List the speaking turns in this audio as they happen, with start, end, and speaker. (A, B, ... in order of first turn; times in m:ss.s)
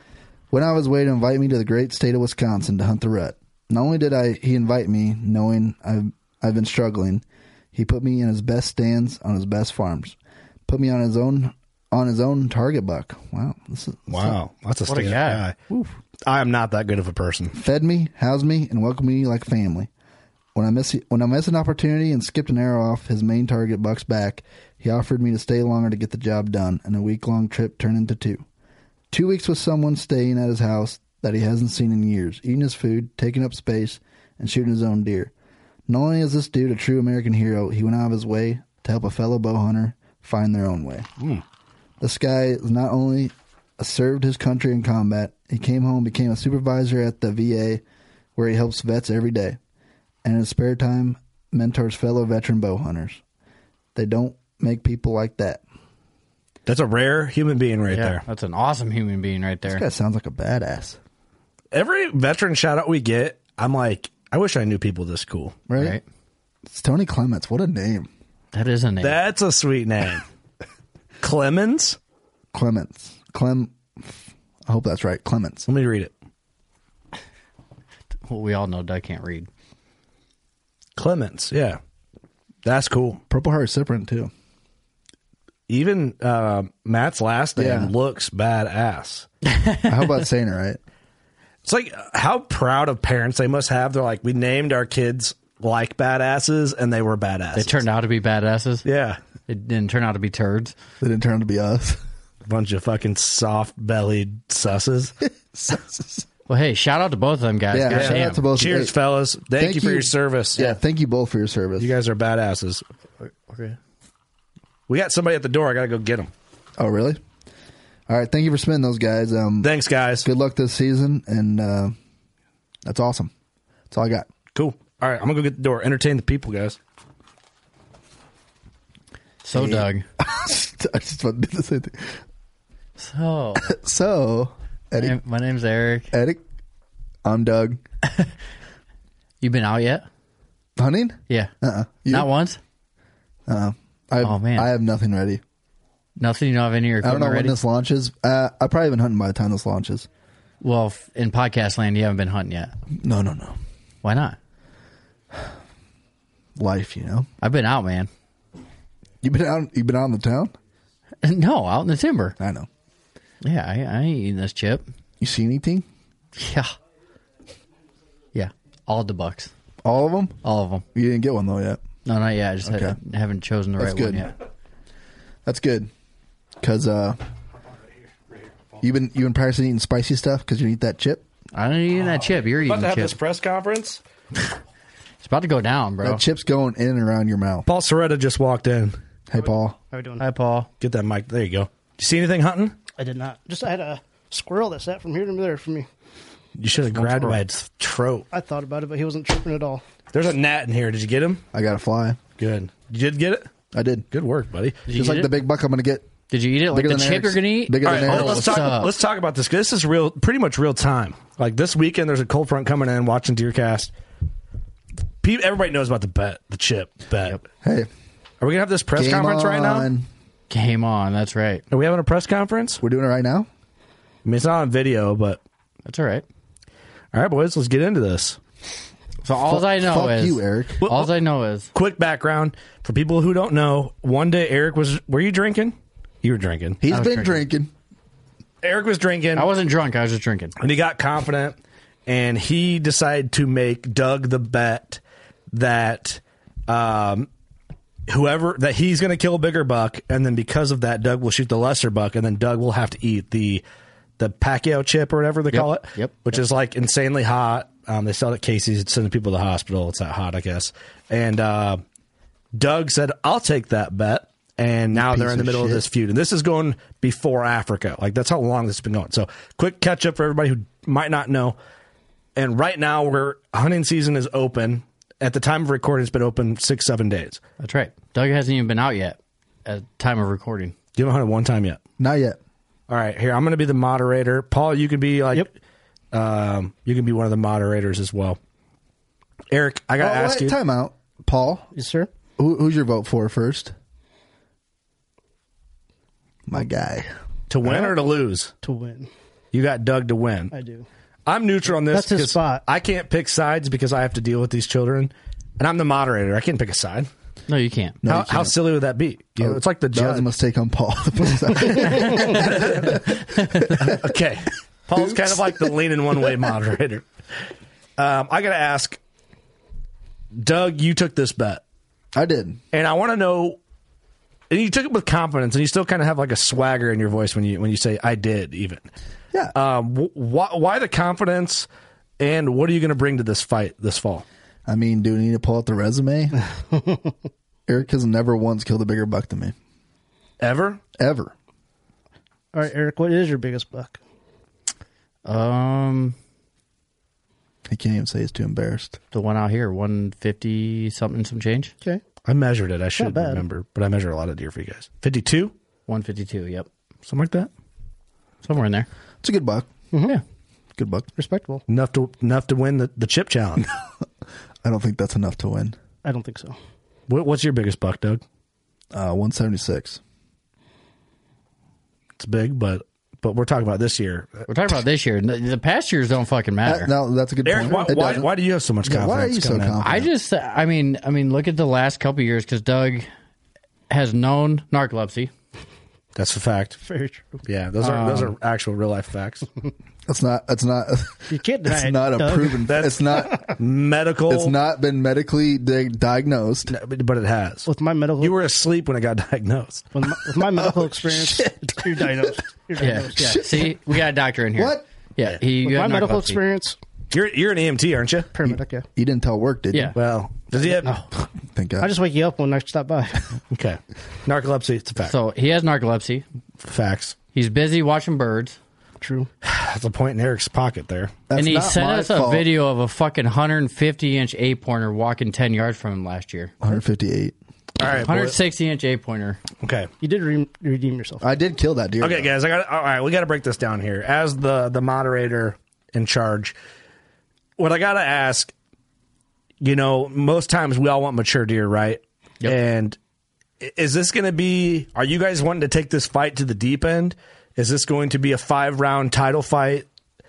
0:00.5-0:10.2 A
0:10.7-0:14.4 A
0:14.1-0:15.6 B
0:14.9-0:15.9 C
0:16.3-0:17.6 B
0:17.5-0:19.9 A
0:20.6-0:28.4 A
0:29.1-0:35.3 A
0:35.9-0:41.1 A
0:42.0-0:47.8 A
0:48.4-0:49.6 A
0:50.2-0:53.2 A
0:54.0-0:55.6 A
0:56.7-0:58.2 B
0:57.9-0:59.8 C
0:59.7-1:01.0 A
1:01.7-1:05.6 B
1:05.7-1:06.0 A
1:05.8-1:06.0 C
1:06.7-1:08.1 A
1:08.5-1:09.2 C
1:09.0-1:10.2 B
1:11.2-1:12.0 B
1:12.5-1:14.1 A
1:14.7-1:15.7 A
1:15.7-1:16.1 B
1:18.3-1:19.5 C
1:21.0-1:21.8 B
1:22.6-1:23.2 B
1:23.3-1:24.3 A
1:25.7-1:29.3 B
1:27.6-1:27.9 A
1:29.5-1:30.1 C
1:29.9-1:30.8 A
1:31.6-1:37.8 B
1:37.6-1:38.8 C
1:38.8-1:39.2 B
1:39.5-1:40.8 C
1:41.0-1:42.0 A
1:42.5-1:45.1 B
1:45.5-1:46.3 A
1:46.5-1:48.4 C
1:47.7-1:48.9 A
1:47.9-1:50.8 B
1:49.6-1:51.9 A
1:51.8-1:52.8 B
1:53.2-1:53.8 C
1:54.9-1:56.3 B
1:56.8-1:57.2 A
1:58.1-2:02.0 A
1:59.6-2:00.3 B
2:02.8-2:03.3 A
2:03.9-2:04.3 A
2:04.6-2:06.8 B
2:09.4-2:10.0 C
2:09.5-2:12.2 A
2:13.0-2:13.7 C
2:13.6-2:15.2 A
2:15.0-2:16.1 C
2:16.1-2:16.4 A
2:17.2-2:17.8 A
2:19.4-2:20.1 C
2:20.8-2:22.3 A
2:22.1-2:22.6 C
2:23.5-2:25.4 A
2:24.2-2:24.7 C
2:26.2-2:27.6 C
2:27.0-2:30.1 A
2:30.6-2:32.7 C
2:32.9-2:33.6 A
2:34.0-2:34.4 C
2:36.6-2:37.3 A
2:37.4-2:38.1 C
2:39.2-2:40.5 A
2:41.2-2:42.4 C
2:42.4-2:42.7 A
2:43.4-2:44.8 C
2:45.2-2:45.9 A
2:46.4-2:46.7 C
2:48.3-2:49.5 C
2:49.8-2:50.4 A
2:50.4-2:50.8 C
2:50.9-2:51.8 A
2:52.0-2:54.3 C
2:52.6-2:53.0 A
2:53.8-2:54.3 A
2:55.4-2:55.9 A
2:56.6-2:57.2 A
2:58.8-3:01.2 A
3:01.6-3:03.2 C
3:02.6-3:04.0 B
3:05.2-3:06.2 C
3:06.0-3:07.7 A
3:07.7-3:09.0 B
3:09.3-3:09.8 A
3:09.4-3:10.3 D
3:10.2-3:10.7 C
3:10.8-3:12.8 B
3:13.0-3:15.9 D
3:16.6-3:18.3 B
3:16.8-3:17.4 D
3:18.3-3:19.8 D
3:20.1-3:21.4 B
3:21.5-3:22.2 A
3:22.4-3:23.5 B
3:23.7-3:24.1 A
3:24.1-3:24.8 B
3:24.9-3:25.3 C
3:24.9-3:26.1 A
3:26.3-3:28.9 C
3:26.7-3:28.8 A
3:27.8-3:33.9 B
3:35.2-3:37.4 B
3:37.6-3:37.9 A
3:38.4-3:39.9 B
3:39.0-3:40.1 A
3:40.5-3:41.6 C
3:41.7-3:42.8 B
3:42.8-3:43.5 A
3:44.2-3:45.4 B
3:45.9-3:46.2 C
3:47.1-3:48.4 B
3:49.2-3:51.7 C
3:49.4-3:50.9 A
3:50.8-3:51.1 B
3:51.7-3:56.8 B
3:56.8-3:57.7 A
3:56.9-3:57.4 C
3:58.6-3:59.5 B
3:59.4-4:00.5 C
4:00.6-4:05.0 B
4:05.5-4:07.3 B
4:08.1-4:13.6 B
4:14.2-4:21.8 B
4:15.5-4:16.2 C
4:22.6-4:31.6 B
4:24.9-4:25.8 A
4:32.4-4:37.4 B
4:37.6-4:40.8 C
4:41.0-4:41.8 B
4:42.0-4:42.4 A
4:42.9-4:45.5 B
4:46.1-4:48.4 B
4:49.5-4:50.6 B
4:50.0-4:51.7 A
4:51.8-4:52.1 D
4:52.4-4:53.7 A
4:56.5-4:57.1 A
4:57.5-4:58.5 B
4:57.6-4:57.9 A
4:58.6-4:59.1 D
4:59.5-5:00.5 B
5:00.5-5:00.9 D
5:01.3-5:07.1 B
5:01.8-5:02.6 D
5:07.5-5:08.0 C
5:08.0-5:08.7 A
5:08.1-5:10.3 B
5:09.4-5:14.0 A
5:12.3-5:13.0 B
5:13.4-5:13.8 C
5:13.8-5:17.1 B
5:14.9-5:15.7 A
5:18.0-5:19.0 B
5:20.3-5:21.6 B
5:22.1-5:22.6 A
5:22.7-5:23.6 B
5:24.5-5:28.8 B
5:29.5-5:31.7 B
5:32.2-5:34.2 B
5:34.7-5:36.4 A
5:36.7-5:37.1 D
5:37.7-5:39.6 A
5:40.4-5:40.8 B
5:41.0-5:41.3 A
5:42.5-5:44.0 D
5:45.2-5:46.2 C
5:47.7-5:49.0 A
5:49.1-5:51.7 C
5:52.3-5:55.5 B
5:53.0-5:53.4 D
5:55.9-5:56.7 C
5:57.1-5:57.5 B
5:58.4-5:58.9 C
5:59.2-5:59.7 A
5:59.9-6:00.2 D
6:00.8-6:01.1 A
6:01.2-6:01.6 D
6:01.7-6:03.7 B
6:04.6-6:05.8 A
6:06.0-6:06.6 D
6:07.1-6:08.2 B
6:08.9-6:10.0 A
6:12.2-6:14.5 B
6:14.5-6:16.9 C
6:16.6-6:18.3 A
6:17.4-6:19.8 B
6:18.8-6:20.1 A
6:19.8-6:23.1 C
6:23.9-6:25.3 C
6:26.2-6:26.8 B
6:26.8-6:27.4 D
6:27.5-6:29.5 B
6:27.8-6:28.3 C
6:30.1-6:33.5 A
6:31.3-6:32.7 D
6:32.7-6:34.5 B
6:34.3-6:36.7 A
6:36.7-6:37.7 B
6:37.7-6:38.4 D
6:38.2-6:39.9 B
6:39.9-6:43.5 D
6:41.1-6:41.4 A
6:42.8-6:46.4 C
6:43.2-6:43.8 A
6:44.6-6:44.8 A
6:45.6-6:46.8 D
6:47.1-6:48.3 B
6:48.3-6:48.8 D
6:48.4-6:50.0 A
6:50.0-6:50.9 B
6:50.6-6:51.1 D
6:51.5-6:51.9 A
6:51.8-6:53.3 D
6:53.5-6:55.1 B
6:55.0-6:56.2 C
6:56.6-6:57.2 B
6:57.3-6:58.6 C
6:59.0-6:59.3 D
6:59.4-7:01.2 B
7:01.3-7:02.5 A
7:01.4-7:06.5 C
7:06.6-7:07.4 A
7:07.8-7:08.4 B
7:07.9-7:09.4 C
7:09.6-7:09.9 B
7:10.0-7:11.2 D
7:11.2-7:12.3 A
7:12.0-7:16.6 B
7:17.6-7:18.5 B
7:19.6-7:23.0 B
7:23.6-7:29.9 B